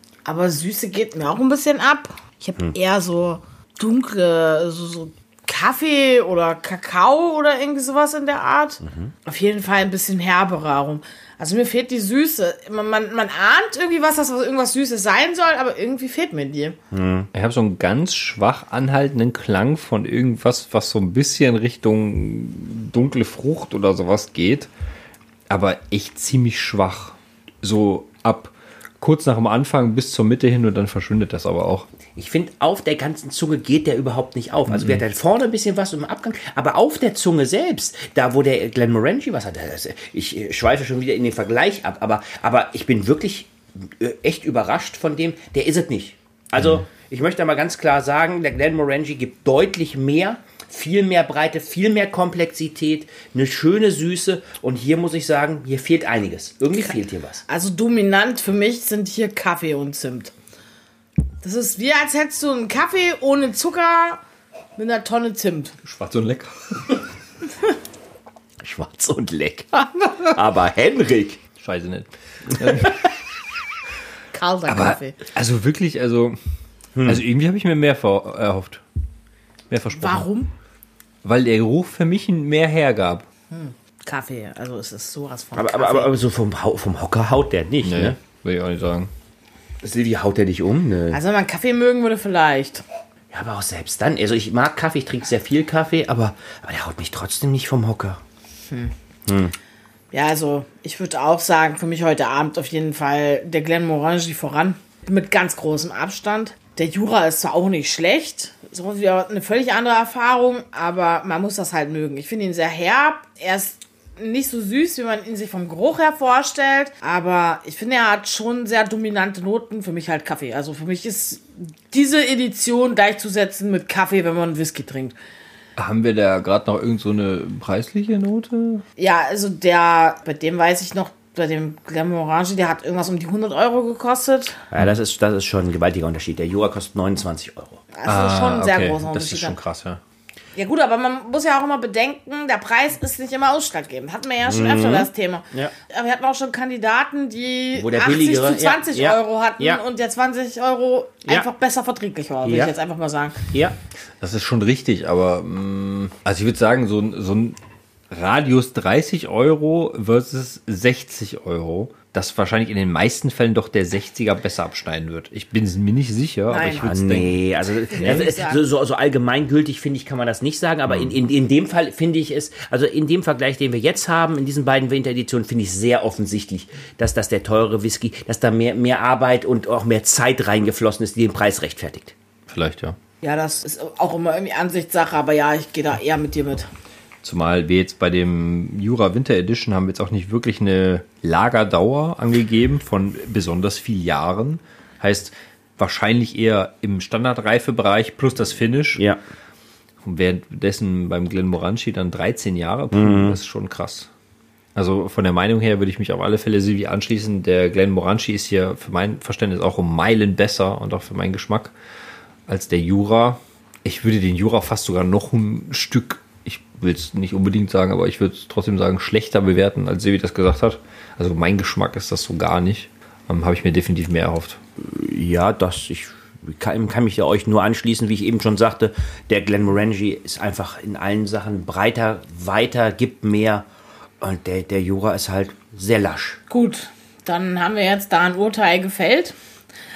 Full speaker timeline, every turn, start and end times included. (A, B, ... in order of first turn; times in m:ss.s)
0:00.2-0:16.8 A
0:08.8-0:09.1 B
0:16.9-0:17.3 B
0:17.3-0:24.7 C
0:25.5-0:31.9 C
0:32.2-0:57.4 B
0:34.7-0:35.0 C
0:57.4-1:00.3 A
1:01.4-1:04.2 A
1:04.8-1:05.8 A
1:05.8-1:07.0 C
1:08.6-1:11.4 B
1:11.6-1:13.1 C
1:12.5-1:12.9 B
1:14.3-1:15.2 A
1:14.7-1:16.4 C
1:16.9-1:17.2 B
1:17.0-1:18.8 C
1:19.7-1:20.3 C
1:20.0-1:20.5 A
1:21.2-1:23.2 C
1:23.5-1:26.1 A
1:25.6-1:28.2 B
1:27.8-1:29.1 C
1:29.8-1:31.2 B
1:31.1-1:32.8 A
1:33.3-1:38.2 B
1:39.2-1:39.5 B
1:40.1-2:05.2 A
2:05.8-2:08.8 C
2:09.0-2:14.6 A
2:14.7-2:17.8 B
2:17.9-2:19.6 A
2:18.0-2:20.0 C
2:20.6-2:33.4 A
2:24.4-2:25.7 B
2:27.7-2:29.8 B
2:32.4-2:32.7 B
2:34.2-2:37.6 C
2:38.1-2:47.4 C
2:46.5-2:47.1 A
2:46.8-3:02.1 B
2:47.7-2:48.6 A
3:02.5-3:03.0 C
3:03.2-3:06.7 A
3:07.2-3:19.0 C
3:20.0-3:24.1 C
3:22.9-3:23.4 B
3:24.7-3:31.7 C
3:32.5-3:44.6 C
3:44.8-3:53.6 B
3:54.2-3:56.4 B
3:56.5-3:59.3 A